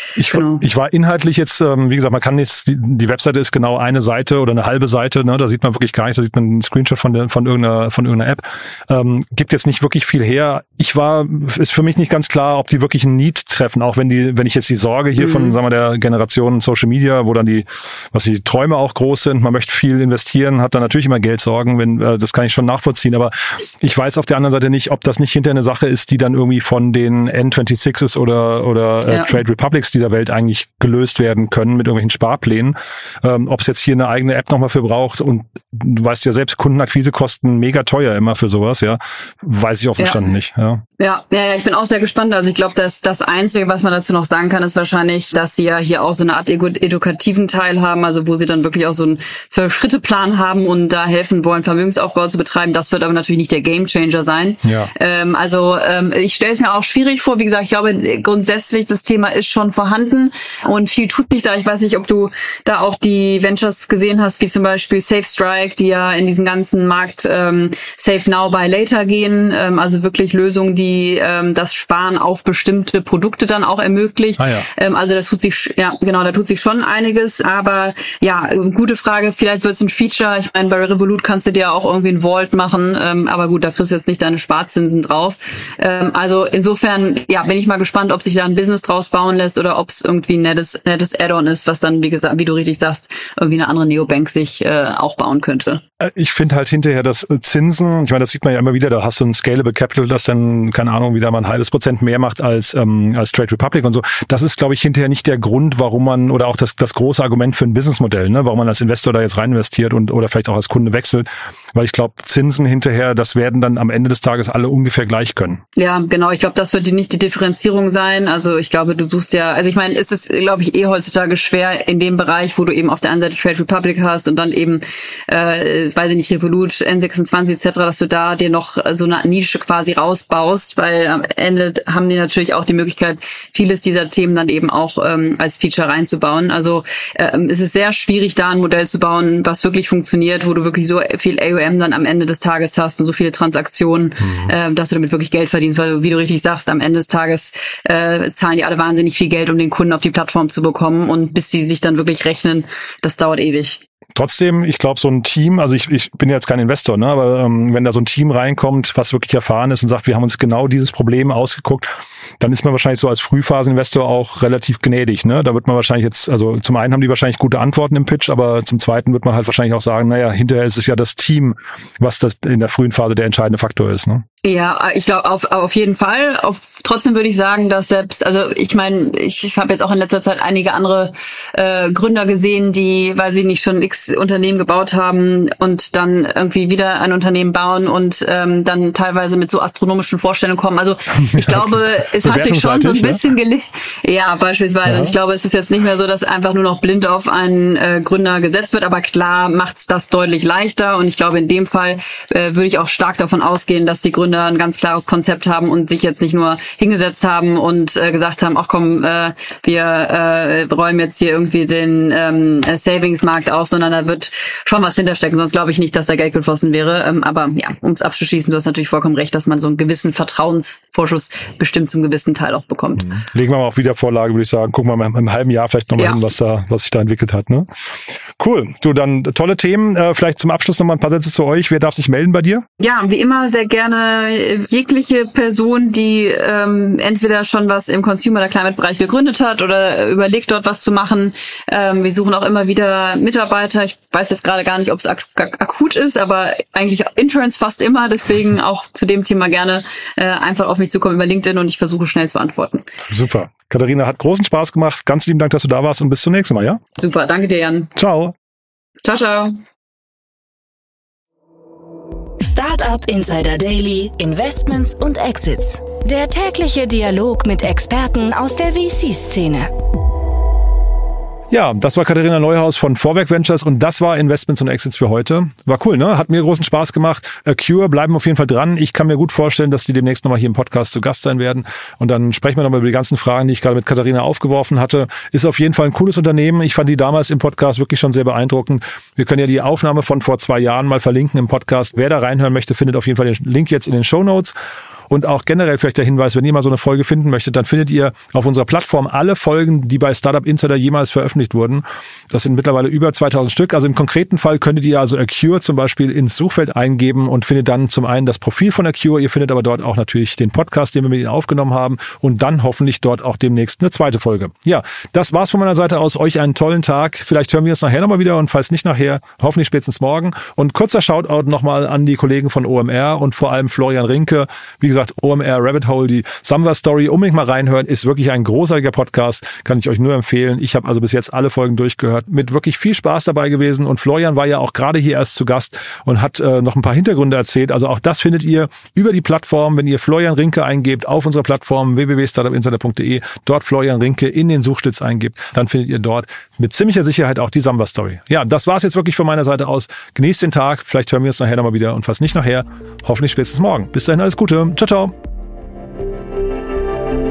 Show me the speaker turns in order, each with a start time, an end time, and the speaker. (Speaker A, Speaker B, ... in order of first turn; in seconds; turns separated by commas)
Speaker A: 0.1-40.8, Speaker B: 0.3-0.6, Speaker B: 15.2-15.6, Speaker B: 29.1-29.4, Speaker B: 40.0-40.3, Speaker B: 41.0-95.8, Speaker A: 54.6-54.9, Speaker A: 74.4-74.7, Speaker A: 96.0-115.6, Speaker B: 115.8-153.8, Speaker A: 144.2-144.5, Speaker A: 154.1-161.9, Speaker A: 162.4-174.2, Speaker B: 174.4-223.1, Speaker A: 191.1-193.2, Speaker A: 194.8-195.2, Speaker A: 223.0-227.7, Speaker B: 225.9-226.2, Speaker A: 228.4-232.6, Speaker B: 232.8-252.9, Speaker A: 253.1-256.8, Speaker B: 257.0-257.9, Speaker A: 257.9-258.3, Speaker B: 259.0-259.5, Speaker C: 262.4-269.7, Speaker A: 271.5-294.6, Speaker A: 295.1-355.1